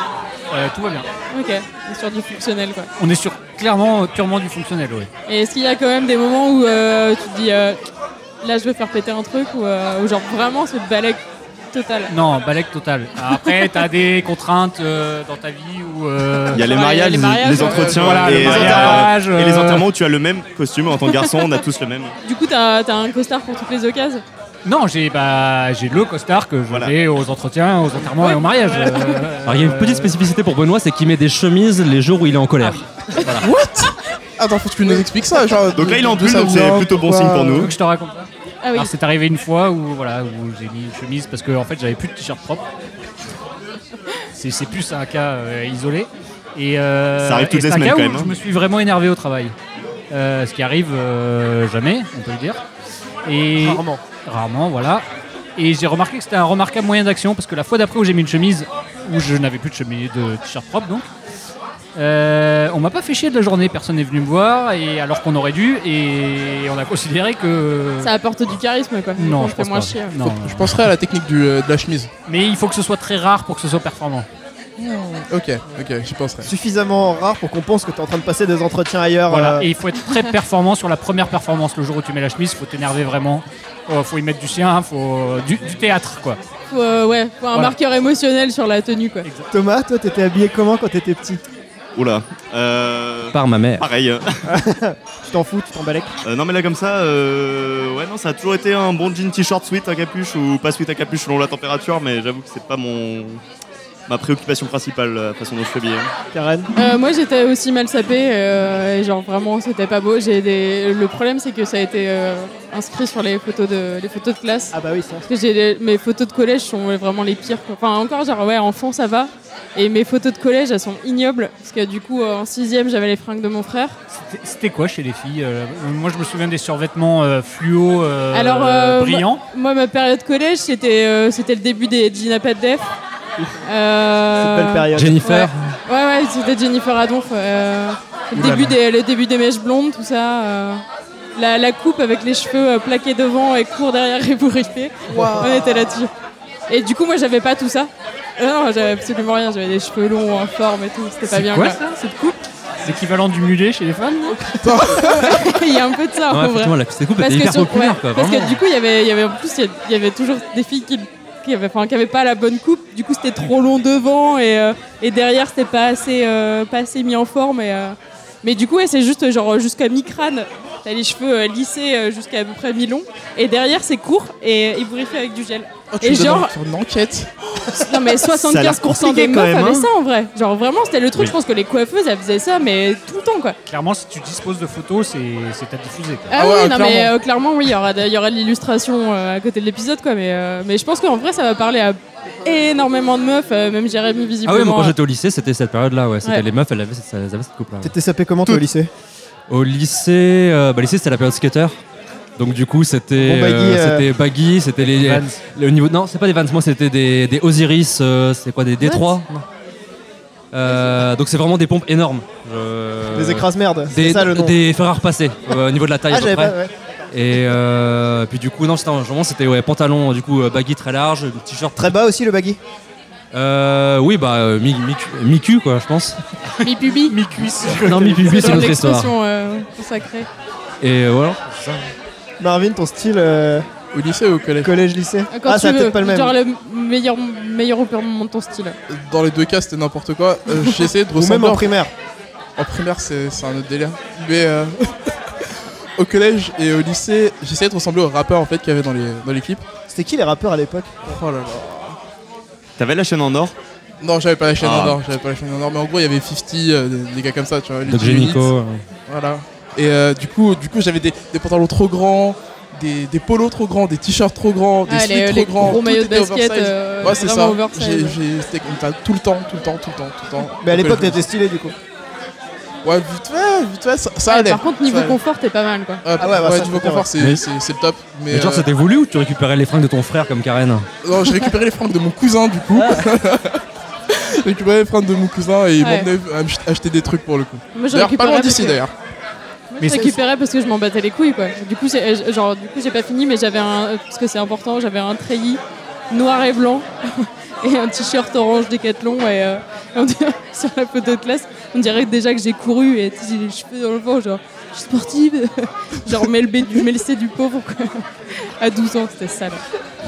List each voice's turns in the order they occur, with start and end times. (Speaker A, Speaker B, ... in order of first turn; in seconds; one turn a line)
Speaker A: 0.5-1.1
Speaker B: 1.3-2.9
Speaker A: 3.0-5.1
Speaker B: 5.3-7.8
Speaker B: 8.4-11.2
Speaker B: 11.7-12.1
Speaker A: 12.1-16.6
Speaker C: 16.5-22.1
Speaker B: 16.5-18.9
Speaker D: 17.6-18.4
Speaker A: 17.8-19.8
Speaker E: 18.5-19.1
Speaker B: 21.1-21.5
Speaker B: 22.2-24.2
Speaker A: 24.6-30.1
Speaker C: 26.7-26.9
Speaker B: 28.2-29.2
Speaker F: 29.4-32.8
Speaker A: 32.6-33.5
Speaker D: 33.4-37.6
Speaker C: 35.7-37.7
Speaker A: 37.5-42.6
Speaker B: 38.6-38.9
Speaker A: 44.3-49.5
Speaker C: 47.2-48.3
Speaker A: 50.1-52.6
Speaker A: 53.2-55.0
Speaker E: 53.6-54.0
Speaker A: 55.6-61.0
Speaker A: 62.0-68.1
Speaker B: 68.0-70.2
Speaker A: 69.2-70.8
Speaker D: 70.2-72.1
Speaker A: 72.2-74.3
Speaker D: 74.8-76.5
Speaker E: 76.4-79.7
Speaker A: 79.3-86.4
Speaker B: 86.7-89.2
Speaker A: 89.2-89.5
Speaker E: 89.5-91.4
Speaker C: 92.0-94.4
Speaker F: 93.3-93.9
Speaker E: 94.5-96.1
Speaker C: 96.2-103.4
Speaker C: 104.1-106.1
Speaker E: 106.3-106.7
Speaker B: 106.8-114.7
Speaker E: 114.7-115.2
Speaker B: 115.2-124.0
Speaker A: 124.1-129.4
Speaker B: 128.3-132.9
Speaker B: 133.6-140.8
Speaker E: 134.4-135.2
Speaker F: 134.9-135.7
Speaker D: 138.3-138.7
Speaker B: 141.3-146.1
Speaker D: 145.1-145.8
Speaker B: 146.7-151.8
Speaker A: 151.3-154.4
Speaker D: 154.5-155.5
Speaker B: 154.8-176.5
Speaker F: 156.3-158.6
Speaker D: 175.9-177.3
Speaker B: 177.8-183.6
Speaker C: 178.4-179.9
Speaker A: 183.7-186.3
Speaker B: 186.3-194.9
Speaker D: 186.3-187.1
Speaker F: 194.4-197.9
Speaker E: 197.8-198.9
Speaker F: 199.5-201.8
Speaker F: 202.4-209.3
Speaker E: 203.2-204.0
Speaker A: 204.8-205.4
Speaker F: 210.5-216.6
Speaker E: 213.1-214.5
Speaker E: 216.1-216.7
Speaker F: 217.1-221.9
Speaker E: 221.8-222.6
Speaker F: 223.3-226.2
Speaker B: 226.6-227.2
Speaker A: 227.1-228.8
Speaker F: 227.8-229.1
Speaker B: 228.2-230.3
Speaker F: 230.8-231.8
Speaker E: 232.4-233.7
Speaker D: 233.9-234.7
Speaker E: 234.6-236.3
Speaker B: 235.3-238.8
Speaker D: 238.9-241.7
Speaker E: 241.1-241.9
Speaker D: 242.6-245.1
Speaker D: 246.0-249.6
Speaker E: 249.9-251.2
Speaker D: 251.1-252.0
Speaker C: 252.8-253.5
Speaker D: 254.0-258.5
Speaker C: 254.6-255.0
Speaker F: 257.9-258.8
Speaker D: 259.1-271.2
Speaker B: 264.9-268.2
Speaker E: 270.6-271.7
Speaker D: 272.8-275.2
Speaker B: 274.3-276.0
Speaker D: 276.0-278.6
Speaker E: 276.2-277.1
Speaker F: 278.3-280.9
Speaker D: 281.0-288.9
Speaker B: 285.8-286.1
Speaker B: 287.7-288.8
Speaker B: 289.7-309.6
Speaker A: 289.8-290.2